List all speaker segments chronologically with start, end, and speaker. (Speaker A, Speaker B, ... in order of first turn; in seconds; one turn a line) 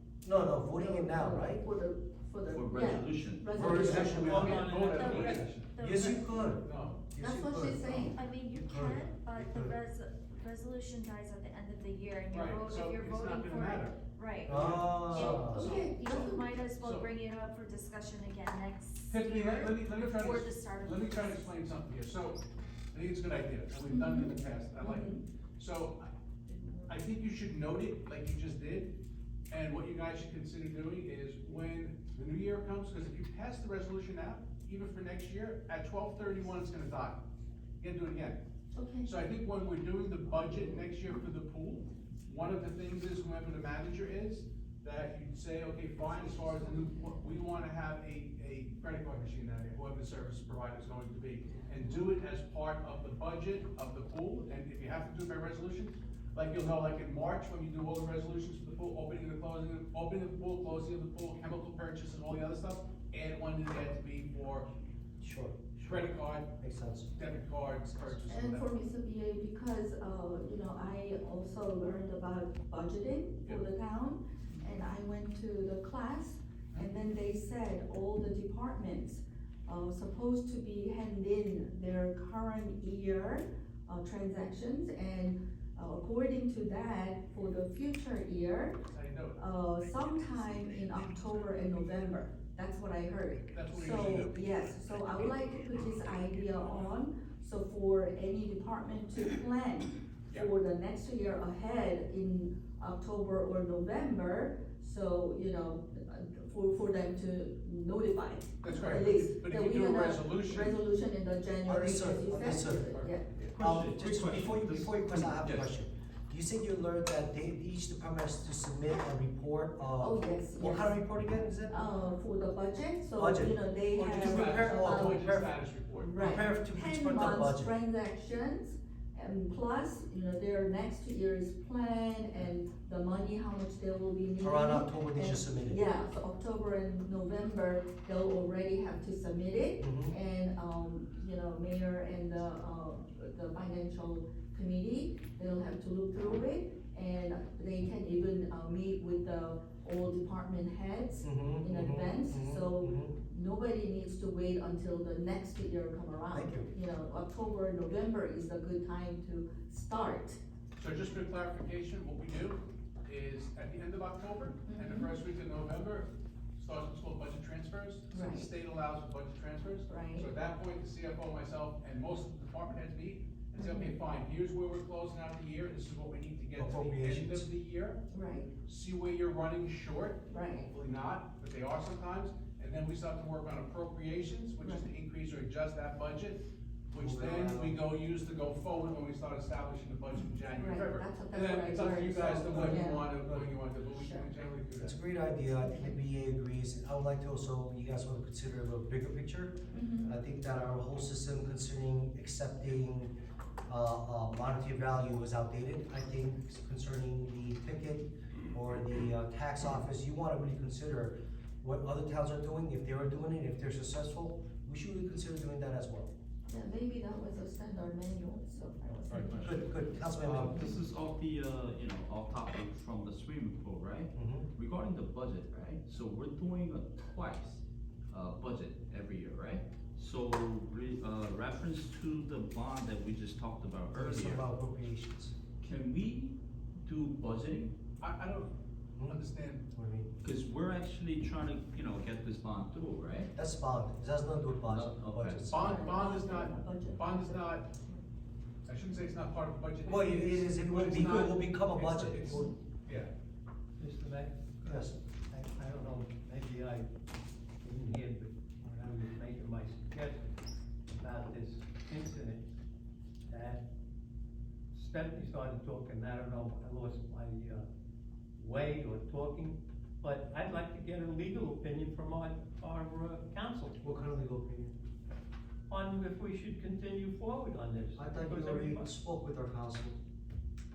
Speaker A: 0.2-1.6
Speaker B: 0.8-4.2
Speaker C: 2.5-3.8
Speaker A: 3.5-4.6
Speaker D: 3.7-6.2
Speaker E: 3.8-5.7
Speaker F: 5.0-6.5
Speaker A: 5.8-9.7
Speaker E: 6.6-7.0
Speaker B: 7.2-8.2
Speaker F: 8.1-21.6
Speaker E: 12.3-13.9
Speaker A: 14.5-15.7
Speaker E: 14.5-17.1
Speaker B: 15.2-16.5
Speaker E: 19.1-22.4
Speaker E: 22.9-28.9
Speaker B: 23.9-25.2
Speaker E: 29.5-37.2
Speaker E: 37.8-38.4
Speaker B: 38.7-39.1
Speaker E: 39.0-64.7
Speaker A: 65.2-67.1
Speaker E: 65.8-66.5
Speaker E: 67.1-68.7
Speaker B: 68.3-88.8
Speaker E: 88.9-89.4
Speaker B: 89.3-113.3
Speaker E: 90.3-90.8
Speaker E: 93.5-94.4
Speaker E: 108.6-110.8
Speaker A: 108.8-109.0
Speaker A: 111.7-112.9
Speaker E: 112.9-113.5
Speaker A: 113.6-121.8
Speaker D: 113.6-114.7
Speaker C: 113.6-115.4
Speaker E: 115.4-115.7
Speaker B: 120.0-121.0
Speaker B: 121.7-125.4
Speaker A: 123.2-125.5
Speaker E: 124.0-126.1
Speaker B: 126.0-160.4
Speaker A: 126.2-127.7
Speaker A: 134.4-135.8
Speaker A: 139.8-140.1
Speaker A: 151.2-153.1
Speaker A: 156.3-156.7
Speaker E: 160.8-178.0
Speaker B: 164.7-165.1
Speaker B: 168.1-168.5
Speaker B: 169.9-170.3
Speaker B: 173.6-173.9
Speaker A: 176.6-177.5
Speaker B: 178.1-178.5
Speaker E: 178.7-195.0
Speaker B: 180.3-180.7
Speaker B: 184.6-184.9
Speaker A: 187.0-187.8
Speaker B: 190.1-193.2
Speaker A: 192.2-193.4
Speaker B: 193.9-194.3
Speaker A: 194.8-203.1
Speaker B: 195.5-196.0
Speaker B: 199.7-200.1
Speaker A: 203.7-216.1
Speaker B: 216.5-220.7
Speaker A: 219.1-220.7
Speaker C: 220.2-234.4
Speaker A: 224.1-224.5
Speaker A: 233.9-235.3
Speaker C: 235.6-237.7
Speaker E: 238.0-238.5
Speaker E: 239.1-239.7
Speaker A: 239.7-240.1
Speaker C: 240.2-243.3
Speaker A: 243.3-245.8
Speaker C: 244.6-245.5
Speaker E: 245.5-247.7
Speaker B: 245.5-248.0
Speaker E: 248.7-253.1
Speaker A: 249.8-252.5
Speaker D: 253.8-256.9
Speaker A: 254.7-255.0
Speaker D: 257.6-260.3
Speaker D: 260.9-262.4
Speaker D: 263.3-263.6
Speaker D: 264.7-267.6
Speaker D: 268.4-273.9
Speaker A: 273.8-274.7
Speaker D: 275.7-279.0
Speaker A: 277.9-280.0